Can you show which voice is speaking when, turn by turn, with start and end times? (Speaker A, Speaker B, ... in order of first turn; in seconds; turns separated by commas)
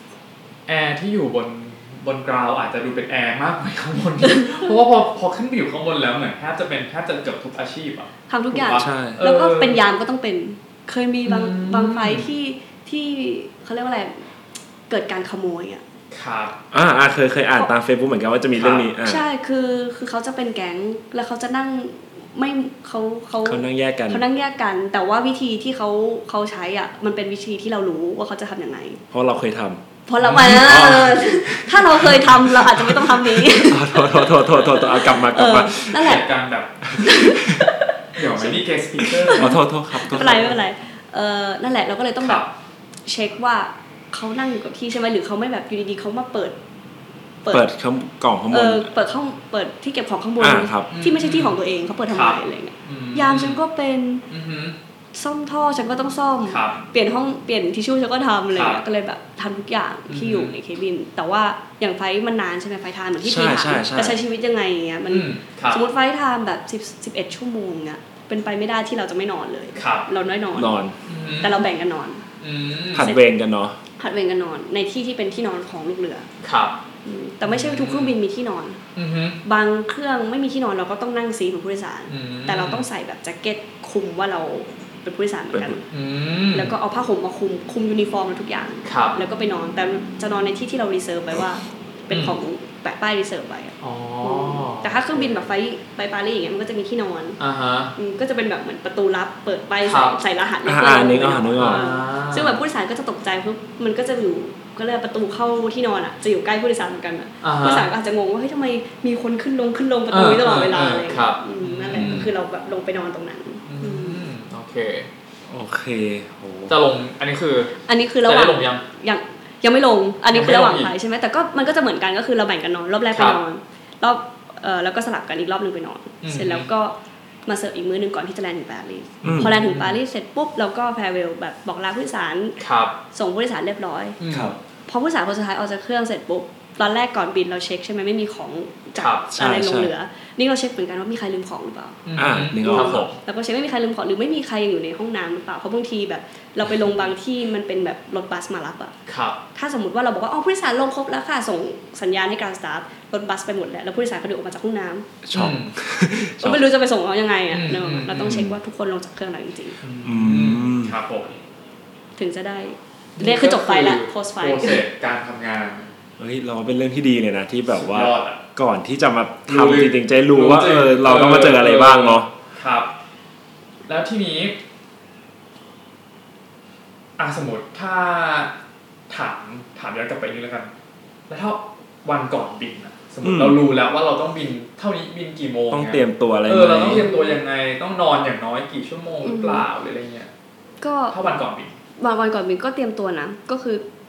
Speaker A: 0.7-9.8, Speaker B: 8.3-14.3, Speaker C: 8.7-9.2, Speaker A: 11.3-12.3, Speaker B: 14.9-15.8, Speaker A: 16.1-16.6, Speaker C: 16.7-19.2, Speaker A: 18.6-18.9, Speaker B: 19.0-29.0, Speaker C: 23.4-24.2, Speaker C: 29.1-36.2, Speaker B: 30.1-36.3, Speaker A: 30.2-30.9, Speaker A: 35.9-37.5, Speaker B: 37.0-42.5, Speaker A: 38.1-39.6, Speaker C: 39.3-40.6, Speaker A: 42.2-42.5, Speaker B: 43.1-46.6, Speaker B: 47.4-47.7, Speaker C: 47.5-48.9, Speaker B: 48.5-54.2, Speaker C: 50.4-50.9, Speaker A: 50.9-51.6, Speaker A: 52.1-53.6, Speaker A: 54.3-54.8, Speaker B: 55.1-70.8, Speaker A: 56.5-56.8, Speaker A: 58.5-58.8, Speaker A: 60.1-60.5, Speaker C: 63.2-64.2, Speaker A: 65.1-65.8, Speaker A: 69.8-70.1, Speaker C: 70.5-71.0, Speaker A: 71.1-71.6, Speaker B: 71.4-72.2, Speaker A: 72.4-73.1, Speaker C: 72.9-73.8, Speaker B: 73.0-73.3, Speaker B: 74.0-76.3, Speaker A: 76.4-76.8, Speaker B: 77.0-78.8, Speaker A: 77.5-78.2, Speaker A: 79.0-79.4, Speaker B: 79.4-85.8, Speaker A: 82.1-82.9, Speaker A: 85.9-86.8, Speaker B: 86.5-97.4, Speaker A: 88.8-89.2, Speaker A: 92.1-92.4, Speaker A: 93.8-95.5, Speaker A: 97.4-97.9, Speaker B: 98.0-114.2, Speaker A: 99.8-100.2, Speaker C: 100.7-101.9, Speaker A: 101.6-102.6, Speaker A: 107.4-107.9, Speaker A: 110.1-112.3, Speaker A: 113.7-115.1, Speaker C: 115.5-116.8, Speaker A: 116.7-118.8, Speaker B: 117.9-132.6, Speaker A: 120.3-120.9, Speaker A: 123.1-123.4, Speaker A: 126.2-126.7, Speaker C: 129.2-129.6, Speaker A: 129.2-130.0, Speaker A: 132.6-133.0, Speaker B: 133.1-134.2, Speaker A: 134.2-134.5, Speaker C: 134.3-134.6, Speaker B: 134.9-142.0, Speaker A: 139.0-139.2, Speaker C: 139.3-139.9, Speaker A: 142.1-143.2, Speaker C: 142.2-143.1, Speaker B: 142.6-148.9, Speaker A: 149.1-149.4, Speaker B: 149.5-155.1, Speaker C: 155.2-156.7, Speaker A: 155.3-155.7, Speaker B: 156.4-159.8, Speaker A: 157.5-158.5, Speaker C: 158.3-158.6, Speaker A: 159.8-161.4, Speaker C: 160.0-161.0, Speaker B: 162.2-164.8, Speaker A: 163.2-165.9, Speaker C: 166.2-172.3, Speaker A: 167.7-168.4, Speaker A: 169.5-172.9, Speaker A: 173.9-174.6, Speaker A: 177.2-178.5, Speaker A: 179.1-180.7, Speaker A: 181.3-190.3, Speaker C: 183.2-183.6, Speaker C: 185.7-187.1, Speaker B: 187.0-187.4, Speaker B: 189.2-189.7, Speaker B: 190.8-191.2, Speaker A: 191.1-191.7, Speaker B: 192.0-193.8